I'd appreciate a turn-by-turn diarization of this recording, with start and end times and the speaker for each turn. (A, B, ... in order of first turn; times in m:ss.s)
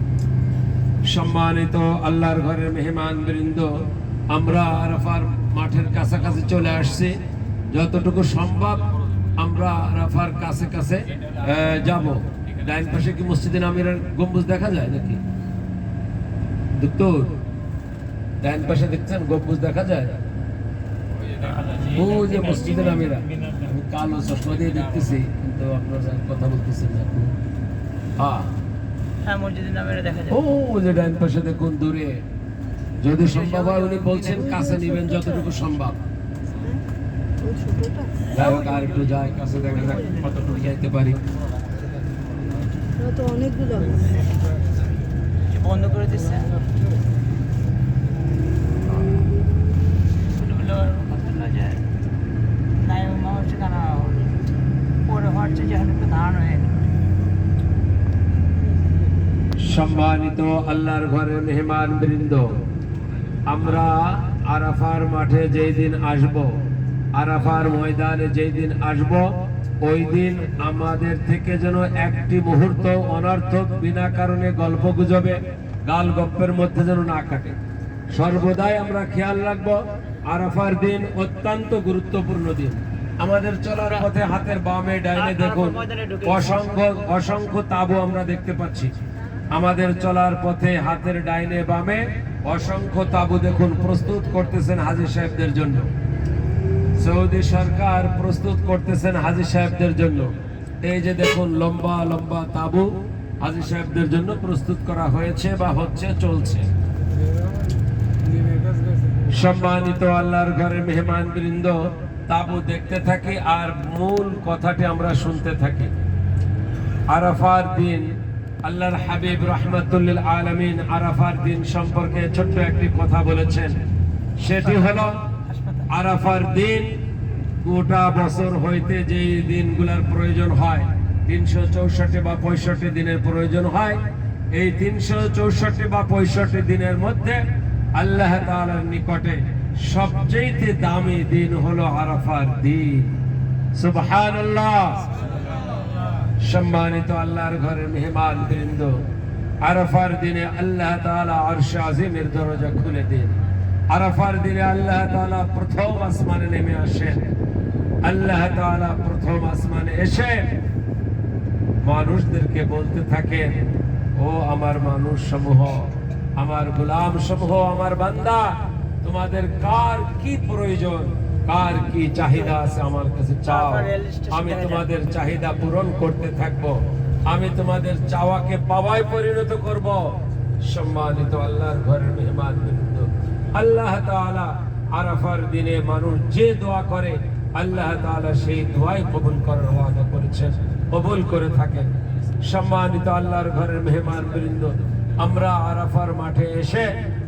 0:01.1-0:03.7 A
0:04.3-0:07.2 A
0:07.7-0:15.2 A
0:16.7-0:17.4 A
0:18.4-0:20.1 A
0:21.8-0:27.3 A
0:28.2-0:28.5 A
0:29.2-0:30.4 B
0:30.3-0:32.2 A
0:33.0-0:36.0 A
0:33.6-0:34.2 B
0:34.3-0:35.0 C
0:37.4-0:38.3 C
0:38.3-0:41.2 A
0:38.4-0:39.0 B
0:43.0-0:44.2 C
0:45.5-0:46.6 B
0:50.3-0:51.8 B
0:52.8-0:54.3 B
0:55.0-0:57.0 B
0:59.6-1:02.4 A
1:03.5-1:06.6 A
1:07.1-1:09.3 A
1:09.8-1:17.6 A
1:18.1-1:28.9 A
1:25.1-1:26.8 B
1:29.5-1:35.9 A
1:37.0-1:40.3 A
1:40.8-1:46.7 A
1:49.3-1:55.9 A
1:57.1-1:58.1 A
1:58.6-2:03.8 A
2:04.4-2:05.2 A
2:04.6-2:05.9 B
2:05.9-2:06.9 A
2:07.6-2:14.0 A
2:14.5-2:17.4 A
2:18.0-2:23.1 A
2:23.8-2:25.0 A
2:26.4-2:29.0 A
2:29.6-2:33.4 A
2:33.9-2:37.3 A
2:38.0-2:40.4 A
2:41.8-3:16.9 A
2:53.5-2:54.9 B